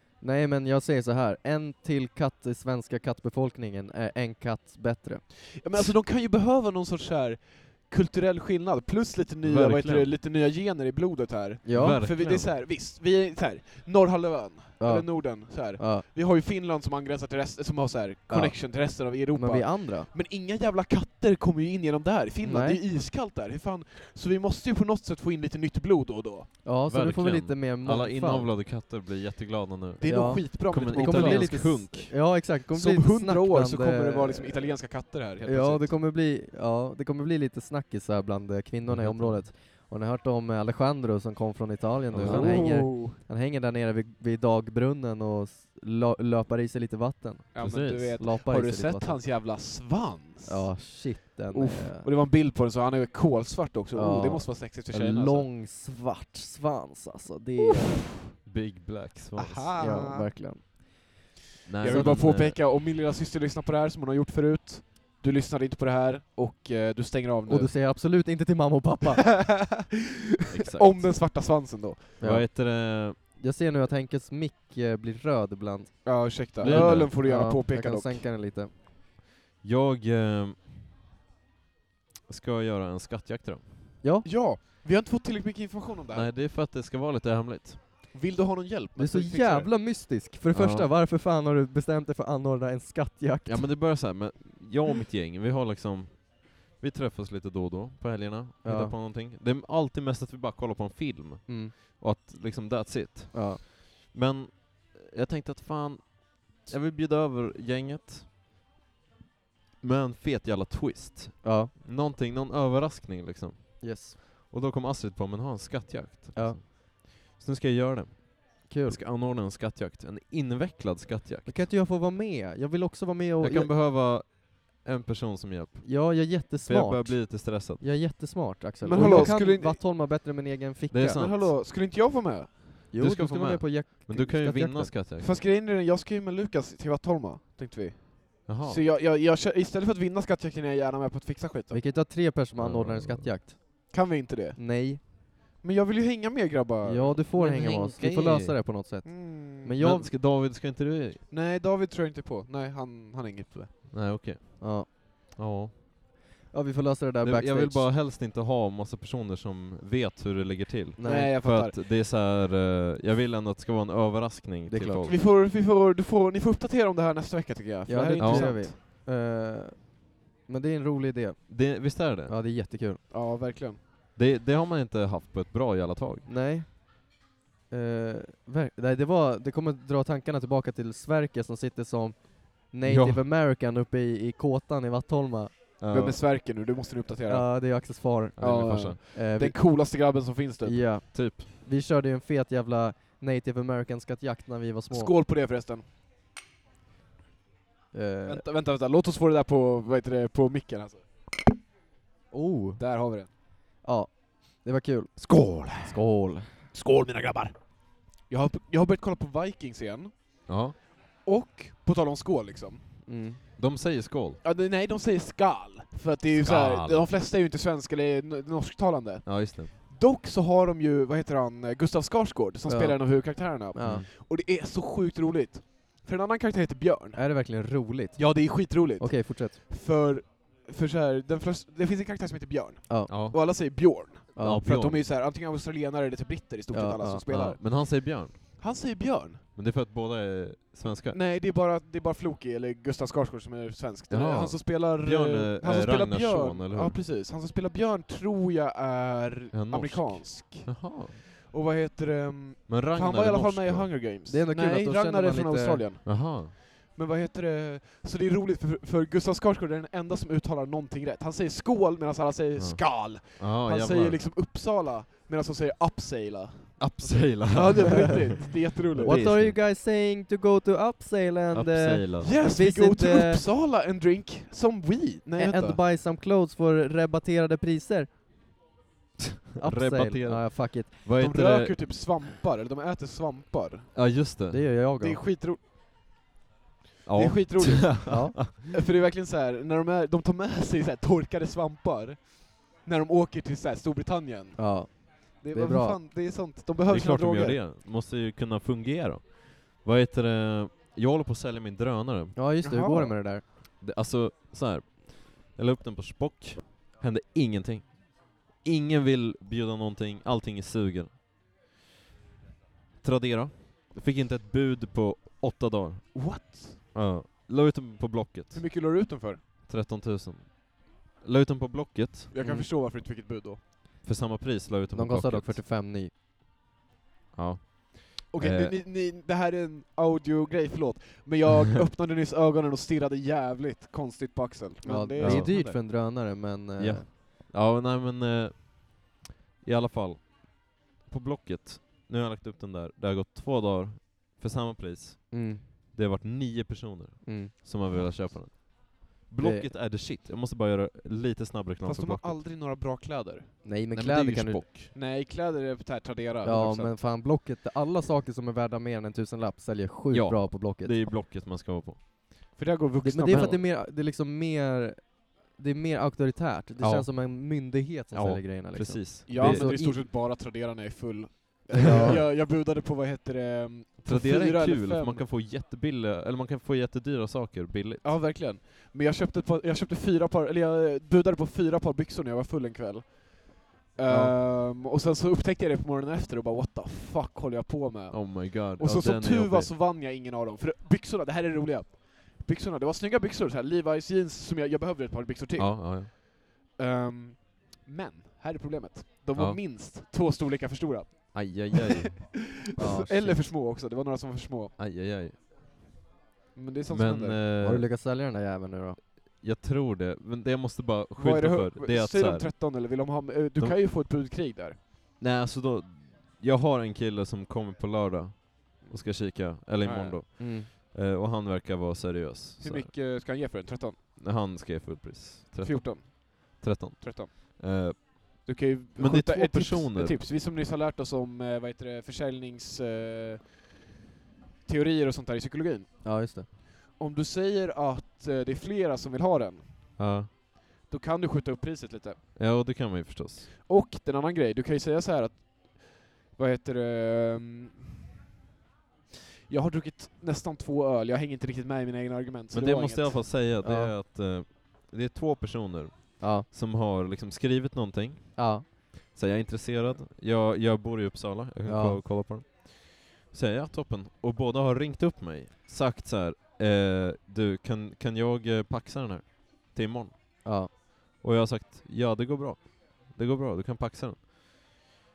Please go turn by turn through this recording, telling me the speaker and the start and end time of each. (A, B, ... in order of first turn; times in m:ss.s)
0:00.2-0:05.5 A
0:05.6-0:26.5 B
0:09.4-0:10.1 C
0:11.6-0:12.0 A
0:11.7-0:12.5 C
0:14.8-0:16.0 A
0:18.3-0:20.1 A
0:22.4-0:22.8 A
0:26.6-0:28.6 A
0:26.8-0:32.2 C
0:30.0-0:31.7 B
0:30.0-0:49.2 A
0:32.7-0:35.9 B
0:38.9-0:39.5 C
0:42.1-0:42.8 C
0:42.2-0:43.2 B
0:47.5-0:50.9 B
0:47.6-0:48.2 C
0:50.4-0:52.1 A
0:51.5-0:55.5 B
0:53.9-0:58.4 A
0:58.4-0:59.7 C
0:59.3-1:00.3 B
0:59.8-1:01.2 A
1:01.6-1:02.6 C
1:01.8-1:07.8 B
1:01.8-1:02.2 A
1:07.5-1:09.4 A
1:09.2-1:09.9 B
1:10.5-1:11.2 C
1:10.5-1:12.2 B
1:12.2-1:13.2 C
1:12.2-1:18.7 A
1:16.0-1:18.3 B
1:16.6-1:17.1 C
1:19.6-1:20.7 C
1:22.3-1:23.8 C
1:24.0-1:24.3 A
1:24.2-1:26.3 B
1:26.1-1:27.9 C
1:28.1-1:29.7 B
1:29.0-1:33.8 A
1:30.5-1:30.9 C
1:33.4-1:48.3 C
1:38.6-1:38.9 A
1:41.5-1:41.7 A
1:43.3-1:43.6 A
1:49.8-2:01.7 C
1:51.4-1:51.7 A
1:53.8-1:54.2 A
1:56.3-1:56.6 A
1:58.7-1:59.0 A
2:01.4-2:03.7 A
2:03.4-2:07.9 C
2:05.8-2:11.4 A
2:08.8-2:09.8 B
2:08.9-2:09.3 C
2:10.9-2:11.5 C
2:11.0-2:12.9 B
2:12.9-2:15.0 A
2:13.0-2:15.4 C
2:15.2-2:21.8 B
2:18.4-2:18.8 C
2:21.7-2:23.9 A
2:22.6-2:23.4 C
2:23.9-2:25.1 B
2:24.6-2:25.0 A
2:25.6-2:27.3 B
2:26.8-2:30.1 A
2:27.3-2:28.6 C
2:29.0-2:29.8 B
2:29.8-2:31.2 C
2:31.3-2:33.9 B
2:33.9-2:35.7 C
2:34.6-2:34.9 A
2:36.5-2:37.9 A
2:37.2-2:45.2 C
2:41.0-2:41.4 A
2:41.0-2:41.8 B
2:44.7-2:45.1 A
2:45.0-2:48.8 B
2:47.9-2:53.0 A
2:48.2-2:48.5 C
2:51.5-2:52.3 C
2:53.1-2:53.8 B
2:54.1-2:56.3 C
2:56.2-2:57.1 A
2:57.7-3:05.8 A
3:02.8-3:03.2 C
3:05.8-3:06.2 C
3:05.9-3:07.6 B
3:07.2-3:10.0 A
3:08.4-3:09.0 C
3:08.4-3:10.9 B
3:10.6-3:15.1 A
3:11.1-3:11.5 C
3:14.9-3:15.8 B
3:17.9-3:18.4 A
3:18.2-3:21.0 B
3:22.3-3:22.8 A
3:22.8-3:23.3 B
3:23.8-3:26.6 A
3:25.2-3:26.0 B
3:26.7-3:30.1 B
3:30.5-3:30.8 C
3:31.2-3:32.8 B
3:33.0-3:33.4 A
3:33.6-3:34.4 C
3:34.4-3:47.2 B
3:36.4-3:37.1 C
3:39.2-3:39.7 C
3:42.7-3:44.0 A
3:43.8-3:44.1 C
3:47.2-3:49.6 A
3:48.1-3:59.4 B
3:52.9-3:53.5 A
3:53.1-3:53.4 C
3:54.3-3:54.6 A
3:54.4-3:55.0 C
3:56.7-3:57.3 A
3:57.3-3:58.6 C
3:59.6-4:01.2 C
4:01.1-4:29.3 B
4:04.1-4:07.0 C
4:09.5-4:11.2 C
4:12.7-4:14.0 C
4:14.3-4:15.8 A
4:16.0-4:16.5 C
4:22.6-4:24.2 C
4:26.8-4:29.6 C
4:29.0-4:33.4 A
4:31.5-4:32.3 C
4:32.2-4:35.8 B
4:35.4-4:38.1 A
4:39.6-4:41.0 A
4:39.6-4:42.2 C
4:41.1-4:44.0 B
4:43.9-4:44.7 C
4:44.5-4:45.2 A
4:45.0-4:45.7 B
4:47.0-4:48.7 C
4:47.1-4:57.6 B
4:47.9-4:48.4 A
4:54.6-4:56.0 A
4:56.8-5:02.4 C
5:02.4-5:03.4 A
5:02.6-5:03.2 B
5:03.7-5:11.2 C
5:13.0-5:19.0 C
5:16.1-5:16.8 B
5:18.5-5:19.4 B
5:19.6-5:22.3 C
5:22.3-5:23.6 B
5:22.4-5:22.7 A
5:24.0-5:25.6 C
5:24.9-5:26.1 A
5:27.3-5:28.8 C
5:28.3-5:35.8 B
5:34.8-5:37.1 A
5:35.2-5:35.6 C
5:36.8-5:39.1 C
5:39.6-5:52.4 C
5:45.3-5:45.6 A
5:47.2-5:47.5 A
5:49.4-5:49.7 A
5:51.8-5:53.7 B
5:53.6-5:54.7 A
5:53.9-5:54.9 C
5:54.9-5:56.9 B
5:56.4-6:01.0 A
6:00.1-6:02.0 C
6:02.5-6:03.6 B
6:03.0-6:10.0 A
6:06.8-6:07.4 C
6:08.1-6:09.7 C
6:09.3-6:15.2 B
6:11.7-6:12.2 C
6:11.8-6:12.2 A
6:14.0-6:18.1 C
6:18.0-6:36.2 B
6:24.1-6:24.4 C
6:28.1-6:29.7 C
6:35.6-6:36.1 C
6:36.7-6:44.7 B
6:39.3-6:39.6 C
6:41.3-6:42.2 C
6:42.8-6:43.4 A
6:44.8-6:45.4 C
6:46.5-6:47.4 B
6:46.9-6:47.9 C
6:47.6-6:49.1 A
6:49.2-6:52.5 C
6:51.2-6:54.8 B
6:55.2-7:02.9 C
6:58.8-7:00.2 B
7:00.4-7:00.7 A
7:02.6-7:04.0 B
7:04.2-7:10.2 C
7:05.6-7:07.9 B
7:08.4-7:13.6 B
7:14.6-7:16.1 B
7:16.0-7:16.5 A
7:17.0-7:20.1 B
7:20.0-7:20.3 C
7:20.9-7:22.2 B
7:22.4-7:23.5 C
7:23.6-7:27.8 B
7:29.5-7:33.3 B
7:32.5-7:50.5 C
7:33.6-7:33.9 A
7:36.2-7:36.5 A
7:38.4-7:38.7 A
7:41.7-7:42.0 A
7:50.4-7:50.7 A
7:51.2-7:54.8 C